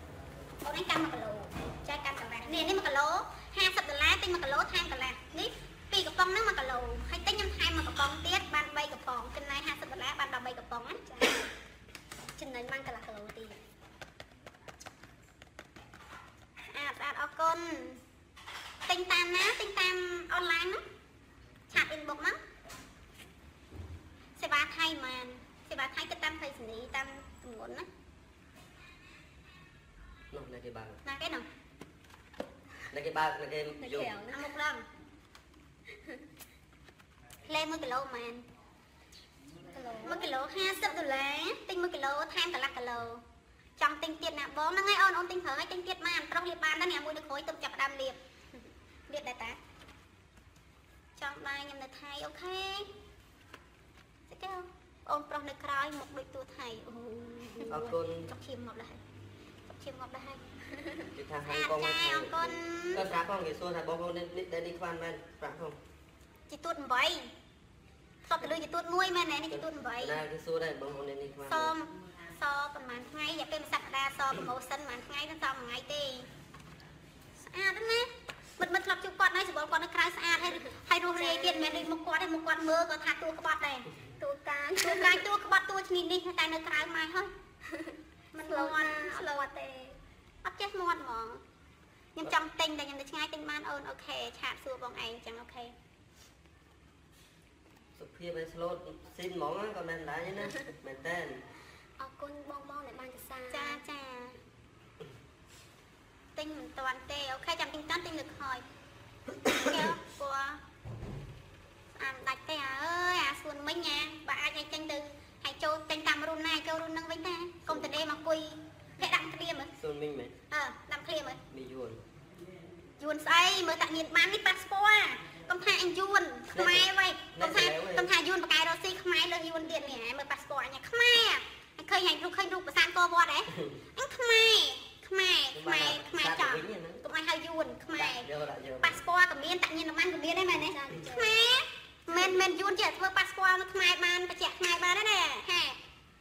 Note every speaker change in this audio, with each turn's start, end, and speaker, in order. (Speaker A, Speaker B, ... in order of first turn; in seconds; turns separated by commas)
Speaker A: 0.6-11.0, Speaker B: 11.0-11.5, Speaker B: 12.4-13.6, Speaker A: 16.7-18.0, Speaker A: 18.9-20.8, Speaker A: 21.7-22.4, Speaker A: 24.4-27.9, Speaker C: 30.3-31.0, Speaker A: 31.1-31.5, Speaker C: 32.9-34.2, Speaker B: 33.8-34.5, Speaker A: 34.3-34.9, Speaker A: 37.5-38.5, Speaker B: 39.7-40.3, Speaker A: 40.0-43.2, Speaker A: 43.8-48.2, Speaker A: 49.1-49.6, Speaker A: 51.2-52.9, Speaker A: 54.3-59.0, Speaker C: 57.7-58.3, Speaker A: 59.7-60.5, Speaker C: 61.1-65.8, Speaker A: 61.5-63.0, Speaker A: 66.5-67.3, Speaker A: 68.2-70.2, Speaker C: 69.5-71.8, Speaker A: 71.5-76.3, Speaker A: 77.4-83.9, Speaker B: 81.2-81.9, Speaker B: 84.2-85.2, Speaker A: 84.8-87.3, Speaker B: 87.7-88.0, Speaker A: 88.3-89.5, Speaker B: 88.5-90.0, Speaker A: 90.4-91.4, Speaker A: 92.2-95.8, Speaker C: 98.0-101.4, Speaker B: 102.0-103.8, Speaker A: 103.5-104.4, Speaker A: 106.4-108.6, Speaker A: 109.5-110.6, Speaker A: 111.9-119.7, Speaker C: 119.8-120.3, Speaker A: 120.5-121.4, Speaker C: 121.5-122.0, Speaker A: 123.0-138.3, Speaker C: 126.5-128.1, Speaker C: 135.5-137.0, Speaker C: 137.9-139.0, Speaker A: 138.8-145.8, Speaker B: 140.7-141.5, Speaker B: 142.1-142.4